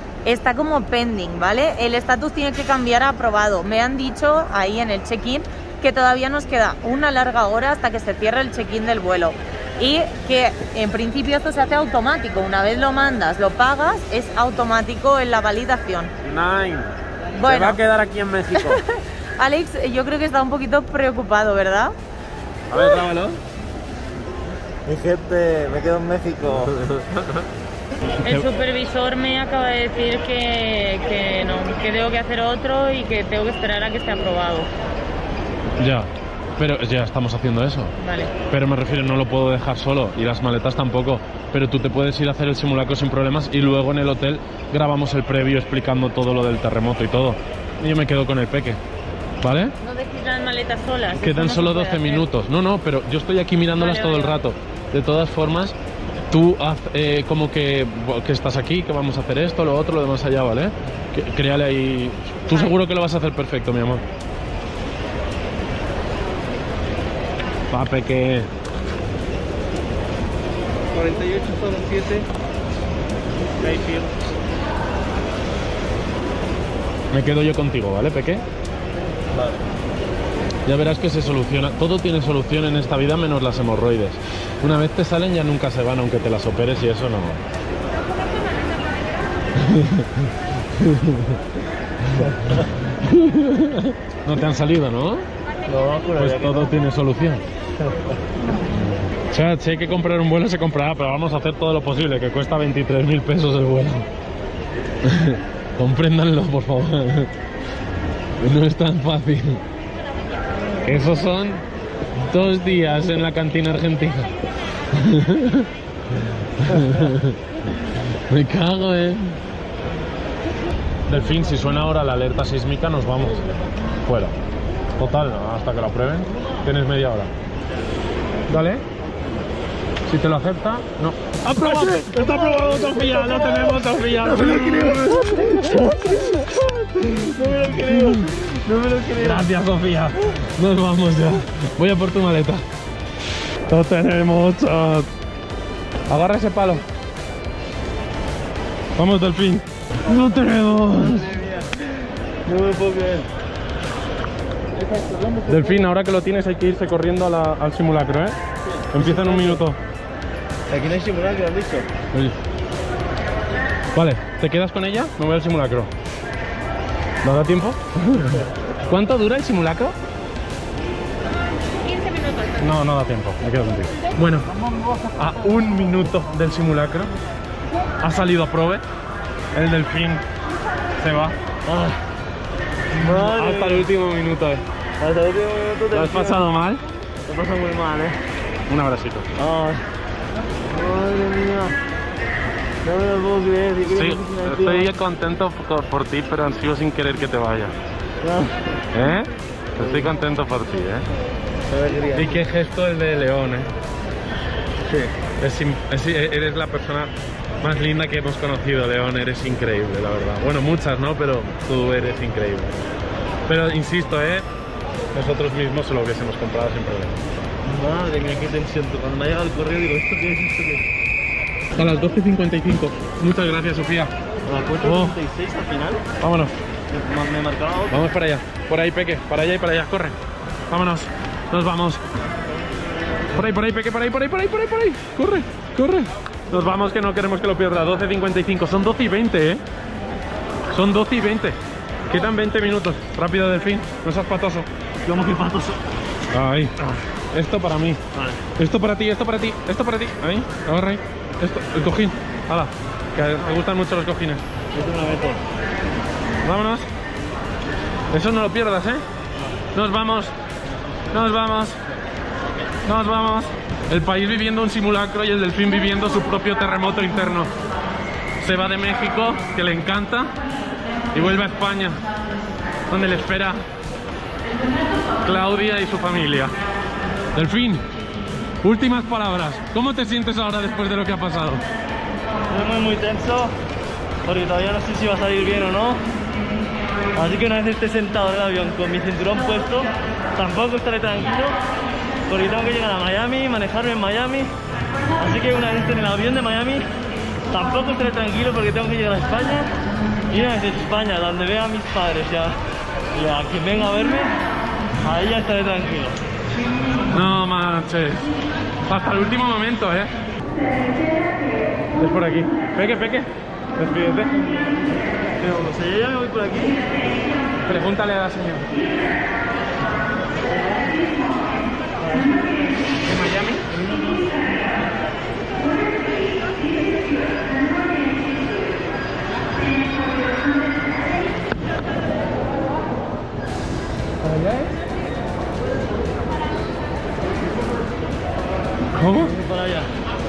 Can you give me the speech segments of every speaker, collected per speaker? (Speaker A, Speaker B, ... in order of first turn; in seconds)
Speaker A: 0.2-16.1, 17.4-17.8, 18.5-21.9, 28.2-34.7, 38.0-38.3, 49.8-52.3, 53.8-54.4, 62.5-62.7, 171.8-172.6
Speaker B: 16.2-18.8, 22.7-23.4, 26.7-27.4, 35.8-37.9, 38.5-48.8, 49.4-49.7, 51.1-55.8, 56.3-64.0, 67.7-68.5, 73.6-74.1, 77.1-78.4, 80.7-87.4, 89.7-90.1, 90.8-91.1, 93.1-95.2, 96.2-97.4, 99.3-104.1, 105.0-107.3, 108.4-109.6, 110.8-111.6, 112.2-114.3, 114.9-115.7, 116.6-117.4, 118.1-119.4, 121.1-123.4, 124.0-124.3, 125.0-127.3, 128.5-128.8, 130.1-136.3, 137.8-142.6, 143.7-145.1, 146.1-146.8, 149.0-151.4, 155.5-158.4, 158.9-159.8, 163.9-165.9, 167.2-169.9, 172.6-174.5, 175.2-177.1, 178.0-178.8, 179.5-180.2, 181.0-181.3, 183.0-184.6, 185.9-186.8, 188.7-189.3, 193.8-197.7, 198.9-201.1, 202.1-203.7, 205.3-212.8, 213.5-214.4, 215.1-217.2, 221.8-224.1, 224.8-225.2, 226.2-226.5, 227.9-230.2, 230.7-232.0, 233.3-239.6, 240.7-241.6, 242.1-244.7, 246.3-248.0, 248.6-254.4, 256.4-256.9, 258.1-259.0, 259.7-260.3, 261.1-261.8, 262.8-267.5, 268.4-270.3, 271.1-272.0, 272.9-273.6, 275.2-276.6, 277.3-277.8, 278.6-281.6, 307.1-308.3, 308.8-310.1, 311.9-314.4, 317.6-318.7, 323.0-323.7, 338.9-339.3
Speaker C: 24.9-26.7, 70.9-72.3, 79.3-79.6, 92.2-92.6, 95.7-96.7, 97.8-98.1, 131.7-139.5, 150.9-151.8, 152.4-153.3, 158.8-159.6, 160.7-161.9, 181.7-182.0, 182.9-183.9, 185.0-186.5, 187.2-188.2, 189.4-189.8, 190.7-191.8, 192.8-194.9, 198.2-198.6, 199.8-200.1, 201.7-202.4, 217.6-220.8, 224.4-226.0, 226.9-228.1, 245.1-245.8, 248.1-248.5, 254.7-255.4, 282.5-283.5, 284.2-286.1, 287.1-291.6, 292.3-294.5, 295.1-296.9, 297.5-299.7, 300.3-302.6, 303.1-304.4, 305.0-306.2, 315.4-316.8, 339.2-339.9